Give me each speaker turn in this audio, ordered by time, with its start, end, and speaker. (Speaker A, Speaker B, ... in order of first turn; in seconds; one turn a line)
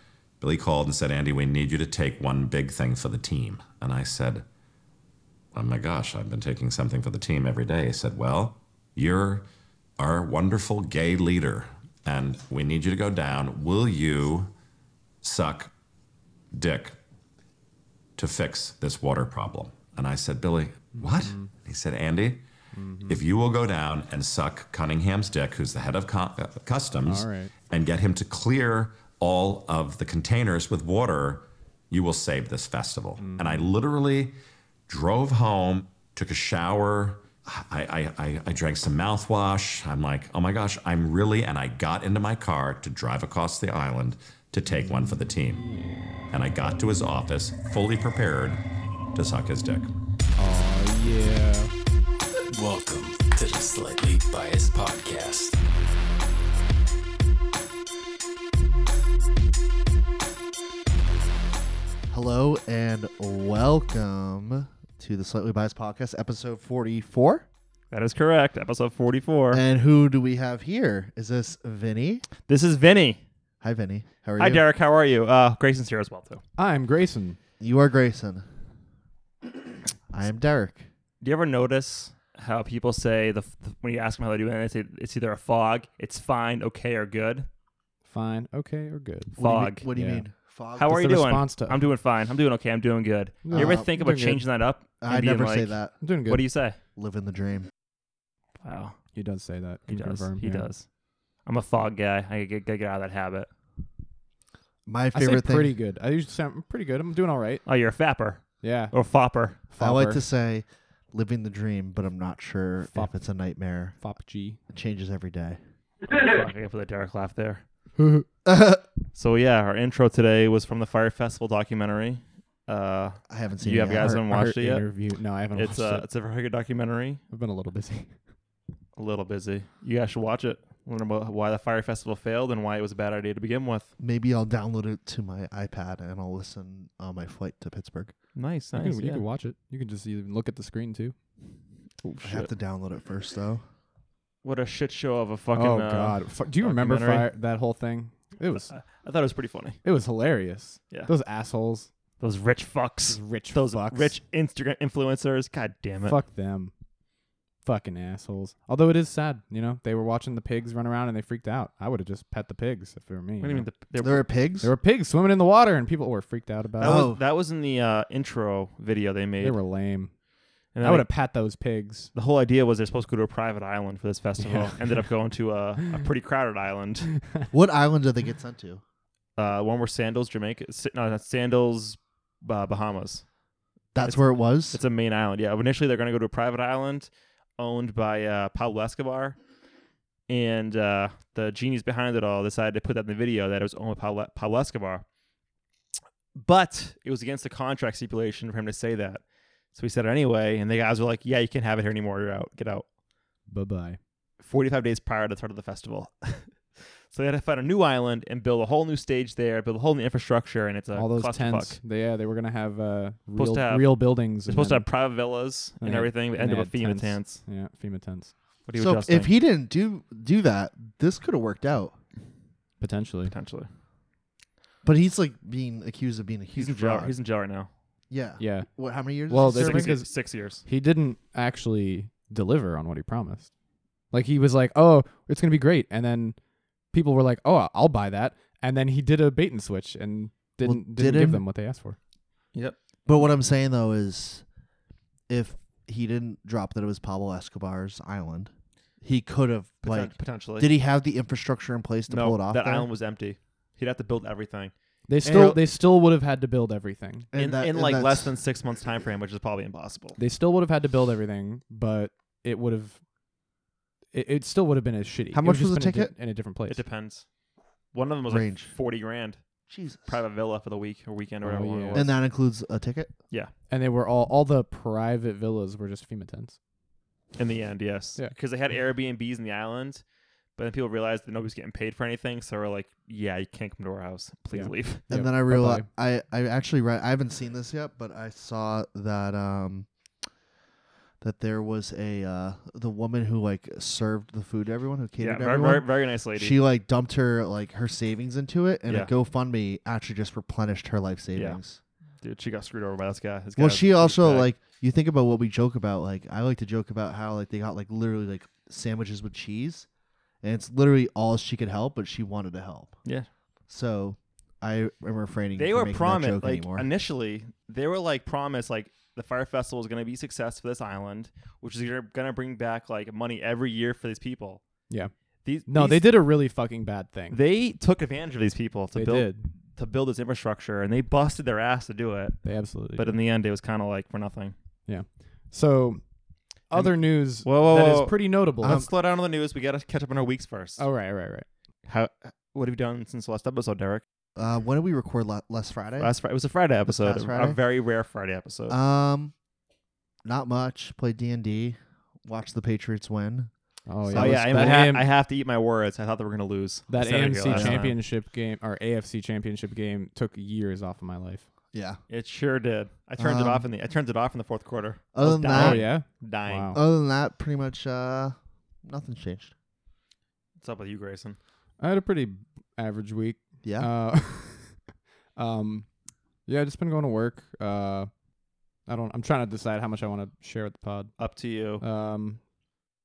Speaker A: 0.4-4.4
Speaker A: 5.5-9.5
Speaker A: 10.0-14.5
Speaker A: 15.2-15.7
Speaker A: 16.5-17.0
Speaker A: 18.2-22.4
Speaker B: 20.9-21.5
Speaker B: 22.7-23.2
Speaker A: 23.1-34.3
Speaker B: 27.0-27.5
Speaker B: 33.2-33.7
Speaker A: 34.9-45.7
Speaker B: 44.8-46.3
Speaker A: 46.3-48.6
Speaker A: 49.1-49.9
Speaker B: 50.4-51.7
Speaker C: 52.5-55.6
Speaker D: 62.1-67.5
Speaker E: 67.9-69.6
Speaker D: 69.5-72.2
Speaker E: 72.5-73.2
Speaker D: 73.6-74.6
Speaker E: 74.4-76.4
Speaker B: 76.6-77.4
Speaker D: 77.6-78.5
Speaker D: 80.1-80.9
Speaker E: 81.2-87.5
Speaker B: 88.0-90.2
Speaker E: 89.4-89.9
Speaker D: 89.4-91.1
Speaker E: 90.8-96.8
Speaker B: 90.8-91.8
Speaker B: 93.4-94.4
Speaker D: 93.5-93.9
Speaker D: 95.0-96.0
Speaker B: 96.0-96.4
Speaker D: 97.0-97.7
Speaker E: 98.6-99.0
Speaker B: 99.1-100.7
Speaker E: 99.9-100.9
Speaker E: 101.4-103.5
Speaker D: 104.8-105.7
Speaker B: 105.1-107.6
Speaker E: 107.7-109.6
Speaker B: 108.6-108.9
Speaker B: 109.7-110.2
Speaker D: 109.8-114.0
Speaker B: 114.0-114.6
Speaker D: 114.7-115.6
Speaker E: 116.1-117.6
Speaker B: 118.0-118.2
Speaker D: 118.5-118.8
Speaker E: 119.1-124.9
Speaker D: 123.3-124.2
Speaker B: 124.0-126.0
Speaker E: 125.5-127.2
Speaker B: 127.3-128.1
Speaker E: 128.9-133.9
Speaker D: 134.0-138.1
Speaker E: 138.3-139.2
Speaker B: 138.8-141.1
Speaker E: 142.1-142.5
Speaker D: 142.2-143.6
Speaker E: 144.4-147.3
Speaker B: 145.5-148.7
Speaker E: 148.7-149.8
Speaker B: 149.8-151.9
Speaker E: 152.2-156.2
Speaker B: 153.1-154.2
Speaker B: 156.0-156.7
Speaker B: 157.6-163.7
Speaker E: 163.4-164.3
Speaker D: 164.0-164.7
Speaker B: 164.6-167.1
Speaker D: 166.8-167.2
Speaker E: 166.8-169.6
Speaker B: 169.4-170.1
Speaker E: 170.7-171.1
Speaker B: 170.8-172.1
Speaker E: 172.1-177.1
Speaker B: 174.4-174.8
Speaker D: 177.5-178.8
Speaker E: 179.4-183.2
Speaker D: 183.9-184.8
Speaker E: 184.0-189.4
Speaker E: 190.3-195.0
Speaker E: 196.3-202.8
Speaker B: 203.5-204.0
Speaker E: 204.4-211.8
Speaker B: 210.9-214.9
Speaker E: 213.3-217.4
Speaker B: 215.8-218.3
Speaker E: 218.7-219.3
Speaker D: 218.8-221.9
Speaker B: 222.8-223.3
Speaker E: 223.3-223.7
Speaker D: 224.8-227.1
Speaker E: 226.5-227.7
Speaker D: 228.1-230.0
Speaker B: 228.4-228.7
Speaker B: 229.3-230.1
Speaker E: 229.4-230.6
Speaker B: 230.6-233.5
Speaker B: 234.1-236.4
Speaker B: 236.9-242.0
Speaker D: 240.6-241.4
Speaker D: 243.1-244.4
Speaker D: 245.3-248.5
Speaker D: 249.0-252.9
Speaker E: 249.8-250.7
Speaker E: 252.1-254.7
Speaker B: 255.1-257.3
Speaker E: 255.2-255.6
Speaker D: 255.2-255.6
Speaker D: 257.3-258.4
Speaker E: 257.4-260.2
Speaker B: 260.2-263.0
Speaker B: 264.1-266.8
Speaker D: 265.3-266.1
Speaker E: 266.7-267.2
Speaker E: 267.9-269.4
Speaker D: 268.3-268.7
Speaker D: 269.7-270.2
Speaker E: 270.0-272.1
Speaker B: 271.4-272.1
Speaker D: 271.9-273.1
Speaker B: 273.7-276.6
Speaker E: 277.4-280.0
Speaker E: 280.6-285.0
Speaker B: 284.5-285.9
Speaker D: 285.1-289.9
Speaker D: 291.2-301.8
Speaker E: 295.2-296.6
Speaker E: 302.2-304.5
Speaker D: 303.6-309.9
Speaker D: 310.4-312.9
Speaker D: 313.7-316.9
Speaker E: 315.6-324.6
Speaker E: 325.4-326.2
Speaker B: 325.6-327.4
Speaker E: 327.3-334.5
Speaker B: 328.9-329.5
Speaker B: 332.4-333.1
Speaker B: 334.9-338.9
Speaker E: 336.7-340.9
Speaker D: 338.6-338.9
Speaker B: 340.8-341.5
Speaker E: 341.8-344.0
Speaker D: 344.4-346.1
Speaker E: 346.0-348.8
Speaker D: 346.8-347.6
Speaker D: 348.7-349.3
Speaker D: 350.2-354.9
Speaker B: 353.9-355.0
Speaker E: 354.1-358.0
Speaker B: 356.9-361.4
Speaker D: 357.5-357.8
Speaker D: 361.7-362.0
Speaker E: 362.1-366.8
Speaker D: 363.2-363.7
Speaker D: 365.1-365.9
Speaker B: 365.5-366.8
Speaker D: 366.7-369.5
Speaker E: 370.6-371.4
Speaker B: 371.8-374.8
Speaker D: 373.6-373.9
Speaker B: 375.4-375.9
Speaker B: 376.4-378.1
Speaker B: 378.9-381.1
Speaker E: 381.2-381.8
Speaker B: 381.8-382.4